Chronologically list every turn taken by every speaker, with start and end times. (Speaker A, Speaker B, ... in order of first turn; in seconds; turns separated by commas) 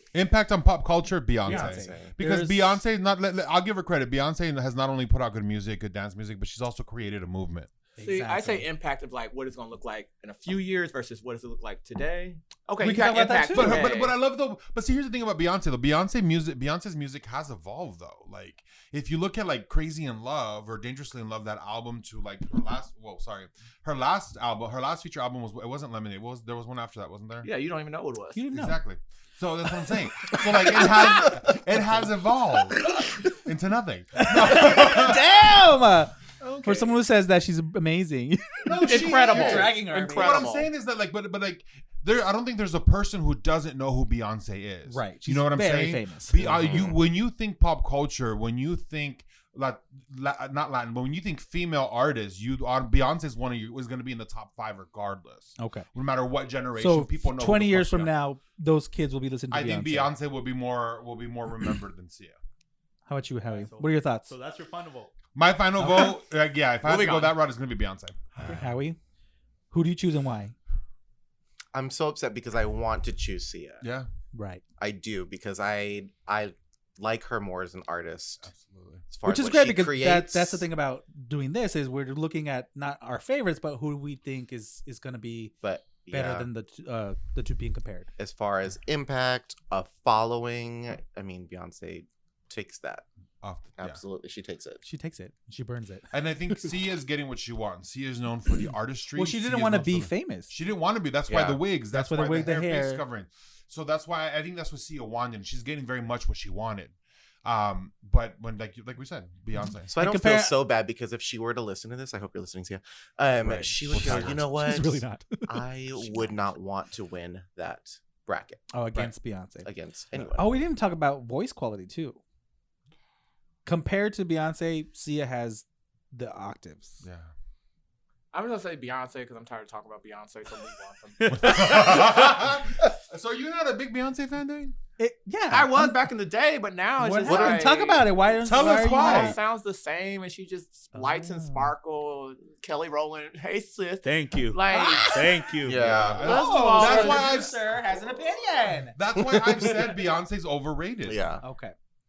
Speaker A: 0.1-7.7, Speaker B: 1.4-2.1, Speaker C: 1.4-2.8, Speaker C: 8.0-8.7, Speaker D: 8.0-14.2, Speaker C: 12.8-13.9, Speaker A: 13.5-27.5, Speaker D: 27.4-28.4, Speaker C: 28.4-28.8, Speaker A: 28.5-35.3, Speaker C: 34.2-40.4, Speaker D: 36.4-37.0, Speaker A: 38.6-58.1, Speaker D: 38.8-40.7, Speaker C: 44.9-46.9, Speaker B: 46.7-46.9, Speaker C: 55.6-55.9, Speaker C: 56.8-60.1, Speaker A: 59.5-62.4, Speaker C: 63.1-64.3, Speaker E: 63.5-65.1, Speaker A: 65.3-68.7, Speaker C: 65.8-66.2, Speaker D: 66.8-67.4, Speaker C: 68.4-69.0, Speaker C: 69.7-70.5, Speaker B: 71.7-73.8, Speaker A: 73.8-74.1, Speaker C: 74.3-74.6, Speaker B: 74.8-78.5, Speaker A: 78.4-79.0, Speaker B: 79.1-80.7, Speaker C: 79.2-85.5, Speaker B: 85.6-86.5, Speaker C: 86.1-88.1, Speaker B: 88.2-93.0, Speaker A: 93.4-94.0, Speaker B: 93.8-94.8, Speaker C: 94.8-96.1, Speaker A: 96.1-109.9, Speaker C: 99.2-100.5, Speaker B: 101.3-101.6, Speaker C: 101.9-103.0, Speaker B: 109.9-119.1, Speaker C: 110.0-110.5, Speaker A: 113.4-114.5, Speaker C: 113.9-115.7, Speaker C: 118.7-119.7, Speaker B: 119.6-120.6, Speaker C: 120.3-122.2, Speaker C: 123.7-127.0, Speaker A: 127.0-127.3, Speaker D: 128.3-132.4, Speaker A: 131.3-134.8, Speaker C: 135.0-136.1, Speaker D: 135.5-145.2, Speaker C: 137.0-139.4, Speaker B: 137.2-137.8, Speaker A: 138.4-139.4, Speaker C: 140.9-141.7, Speaker E: 144.0-146.1, Speaker C: 144.7-145.0, Speaker B: 145.6-146.5, Speaker A: 146.0-147.6, Speaker D: 146.2-147.5, Speaker C: 146.2-149.0, Speaker A: 148.9-151.2, Speaker B: 149.1-150.0, Speaker B: 151.0-151.4, Speaker C: 151.4-151.8